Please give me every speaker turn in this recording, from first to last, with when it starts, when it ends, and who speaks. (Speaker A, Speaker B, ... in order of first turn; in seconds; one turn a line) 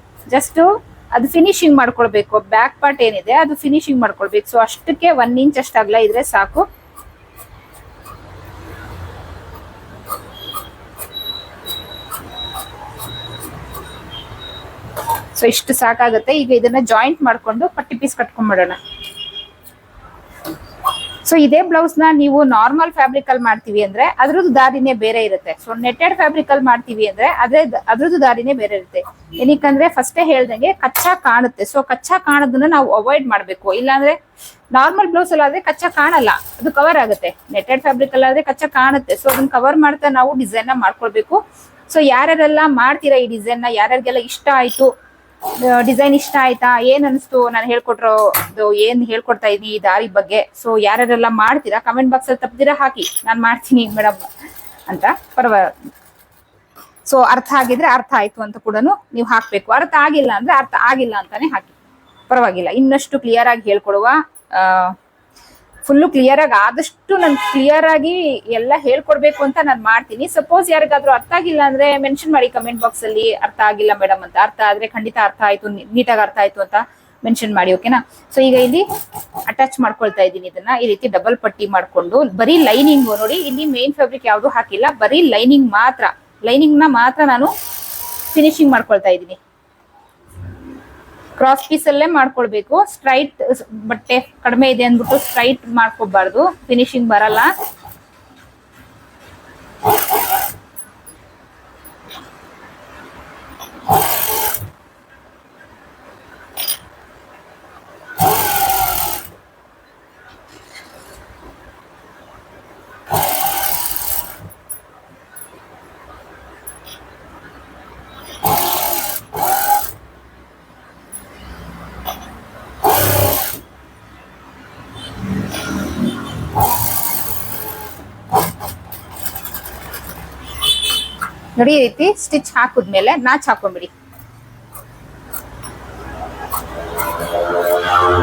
Speaker A: 0.3-6.7
Speaker A: 15.3-18.8
Speaker A: 21.2-34.2
Speaker A: 34.7-44.9
Speaker A: 45.5-54.2
Speaker A: 54.9-55.7
Speaker A: 57.0-61.7
Speaker A: 62.3-65.0
Speaker A: 65.8-78.8
Speaker A: 79.5-87.5
Speaker A: 88.3-89.4
Speaker A: 91.4-97.5
Speaker A: 131.6-133.9